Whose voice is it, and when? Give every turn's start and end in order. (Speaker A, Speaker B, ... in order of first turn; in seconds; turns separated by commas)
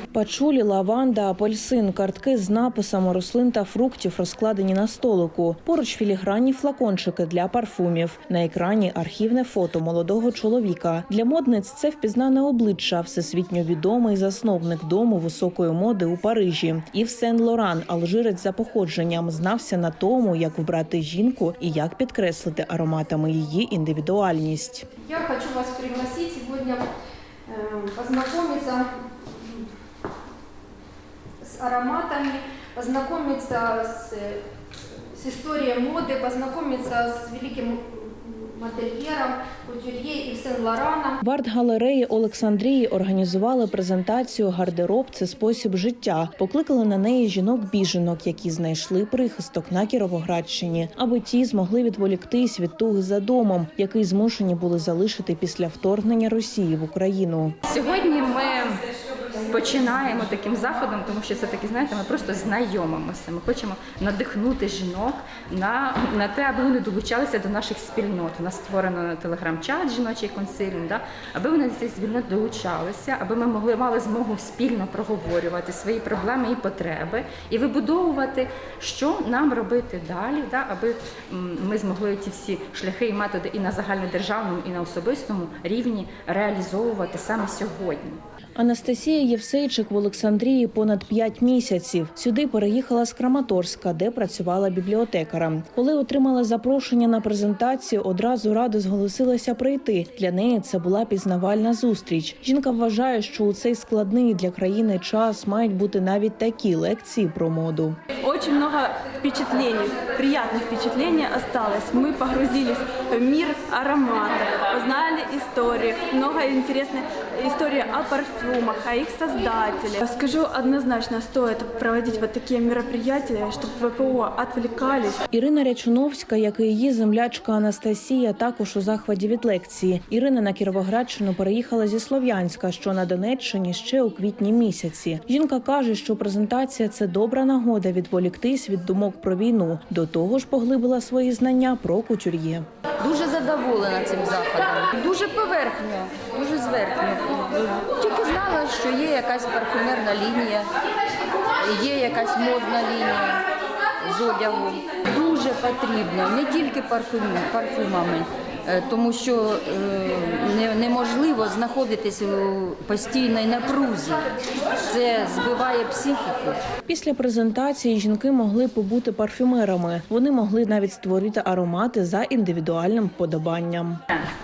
Speaker A: 0.1-24.9, Speaker B: 25.0-26.8, Speaker B: 27.5-29.6, Speaker B: 31.4-34.4, Speaker B: 35.1-41.2, Speaker A: 41.2-57.6, Speaker C: 57.7-58.8, Speaker C: 59.4-88.2, Speaker A: 88.6-108.0, Speaker D: 108.2-125.2, Speaker A: 125.3-142.7, Speaker E: 143.0-150.7, Speaker E: 151.6-153.4, Speaker E: 154.0-164.3, Speaker E: 164.8-166.6, Speaker A: 166.9-174.0